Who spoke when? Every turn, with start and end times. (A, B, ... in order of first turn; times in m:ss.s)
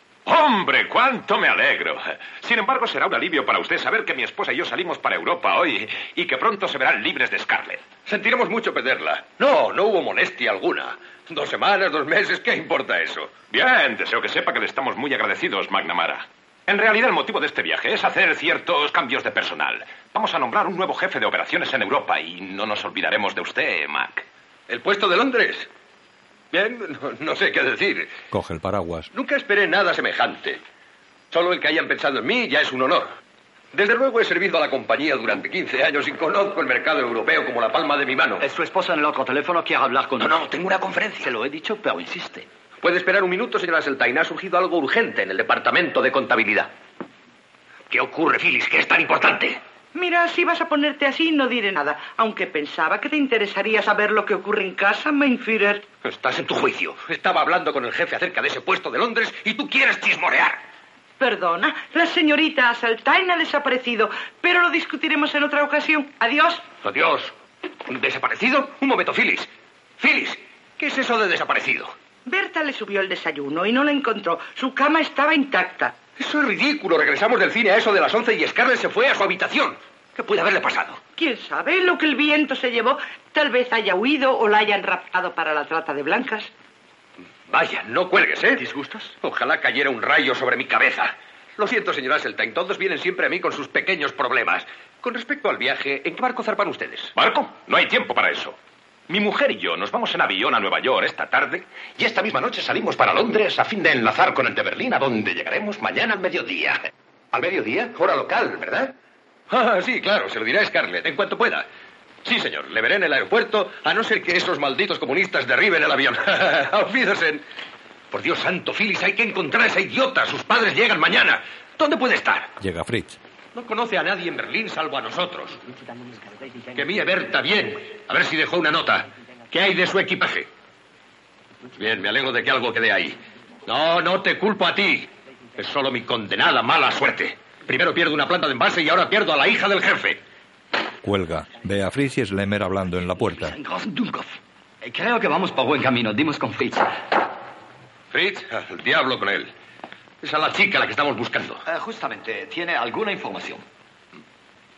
0:00.2-0:07.8 A
0:08.0-0:13.3 B
0:13.5-0:24.2 A
0:24.7-0:25.7 B
0:26.5-0:28.1 B
0:28.3-0:29.1 C
0:29.1-0:30.6 B
0:31.3-0:33.1 B
0:33.7-0:38.4 B
0:38.4-0:40.5 D
0:40.2-0:41.3 B
0:41.2-0:42.5 D
0:42.8-0:46.7 B
0:47.9-0:49.6 B
0:49.9-0:55.8 E
0:56.0-1:00.6 B
1:01.2-1:06.6 E
1:06.8-1:07.3 B
1:07.9-1:11.9 B
1:12.2-1:15.9 E
1:16.2-1:21.0 B
1:21.2-1:26.5 E
1:27.5-1:37.1 B
1:37.1-1:38.5 A
1:39.1-1:41.6 A
1:45.5-1:46.0 B
1:47.3-1:48.9 B
1:49.5-1:51.7 B
1:52.2-1:57.4 B
1:58.1-2:02.5 B
2:02.6-2:03.2 C
2:03.5-2:05.6 B
2:06.7-2:10.5 B
2:11.8-2:20.2 B
2:21.0-2:23.6 C
2:23.4-2:26.9 D
2:28.1-2:29.5 B
2:30.2-2:31.6 B
2:31.6-2:33.6 D